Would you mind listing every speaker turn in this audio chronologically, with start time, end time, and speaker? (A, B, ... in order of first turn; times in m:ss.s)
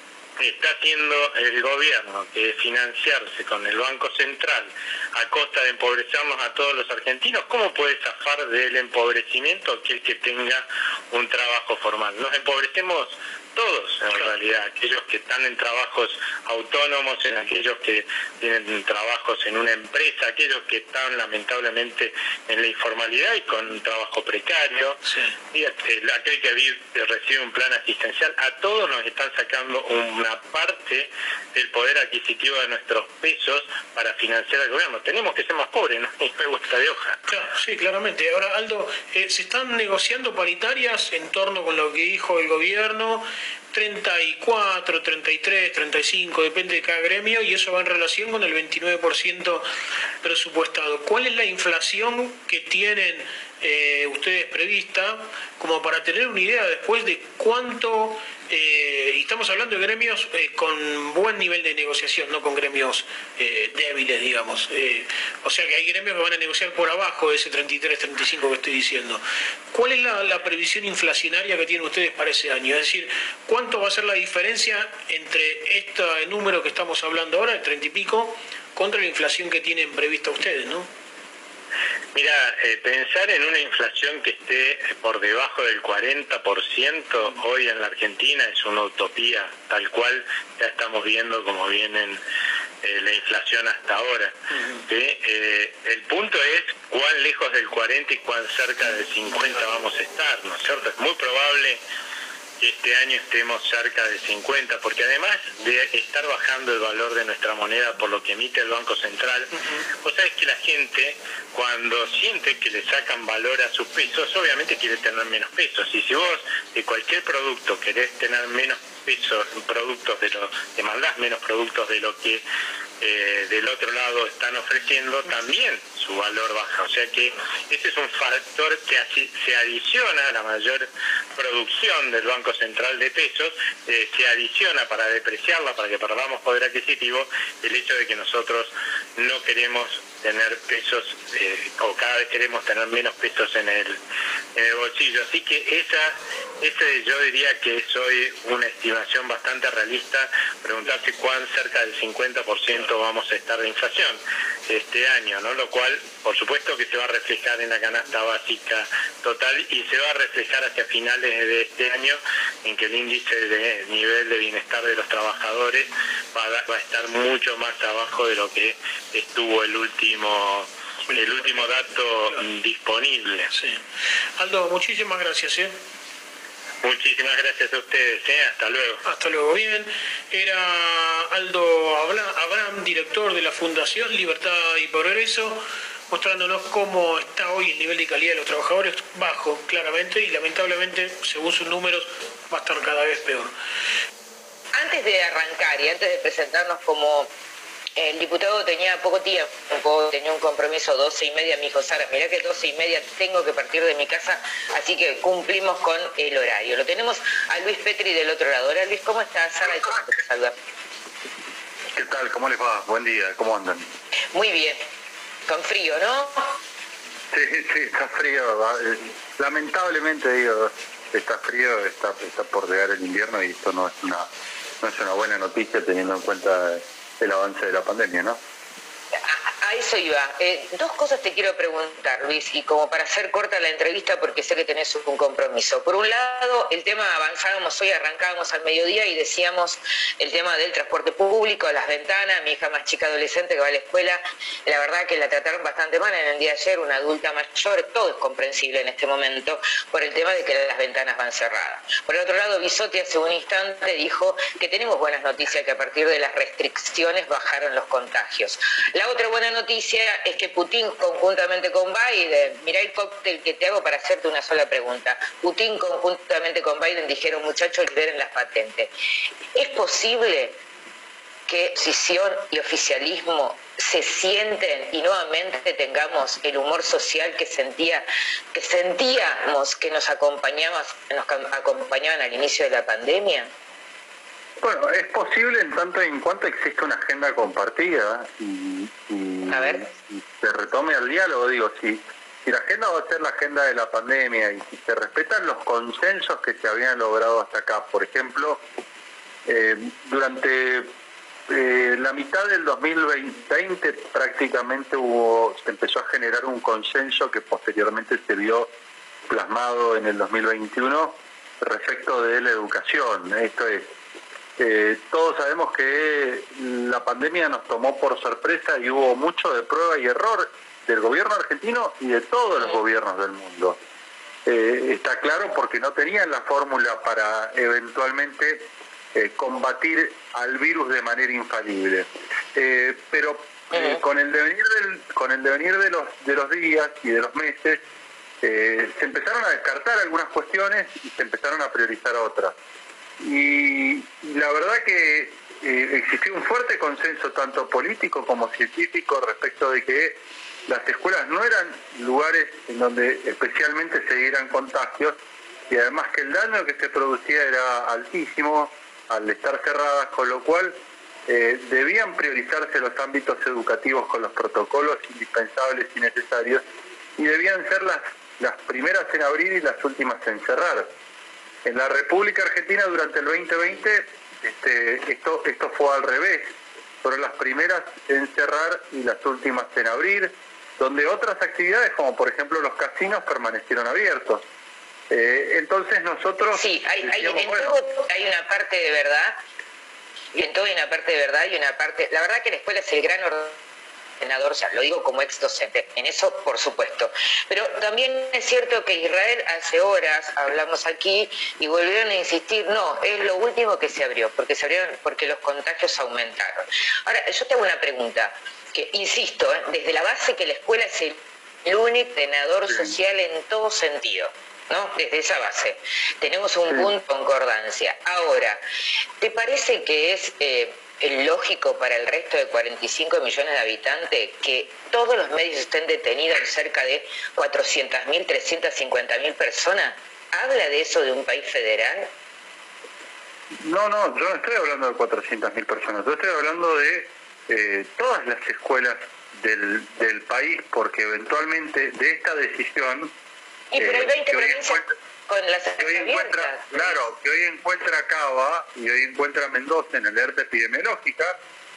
0:00.4-0:37.2 A
0:14.0-0:14.4 B
0:25.1-0:25.4 B
0:37.3-0:49.7 B
0:50.2-1:20.9 B
1:22.1-1:32.2 A
1:32.8-1:34.3 A
1:34.9-1:41.8 A
1:42.6-2:02.4 A
2:03.0-2:24.0 A
2:24.6-2:53.5 A
2:51.1-2:51.8 B
2:53.5-2:53.8 B
2:54.4-2:55.8 B
2:56.8-2:59.0 A
2:59.0-3:13.5 B
3:14.7-3:17.3 C
3:18.0-3:30.5 C
3:29.7-3:30.0 D
3:31.9-3:33.9 D
3:34.3-3:34.8 C
3:35.5-3:36.6 C
3:37.3-3:44.3 D
3:44.8-3:48.4 D
3:49.3-4:28.9 C
4:29.6-4:30.6 C
4:31.5-4:43.5 C
4:44.6-4:58.6 D
4:49.5-4:49.8 C
4:59.5-5:00.9 D
5:01.5-5:08.7 D
5:09.3-5:13.9 D
5:14.6-5:23.8 D
5:24.5-5:37.8 D
5:38.4-5:42.6 D
5:43.2-5:55.2 D
5:55.7-6:06.6 D
6:07.2-6:10.9 D
6:11.6-6:16.5 D
6:17.0-6:24.4 D
6:25.1-6:27.8 D
6:26.5-6:29.4 C
6:30.4-6:33.6 C
6:34.2-6:58.6 C
6:56.7-6:56.9 D
6:59.2-7:12.1 C
7:13.6-7:23.1 D
7:23.7-7:27.0 C
7:23.8-7:24.9 D
7:25.8-7:31.4 D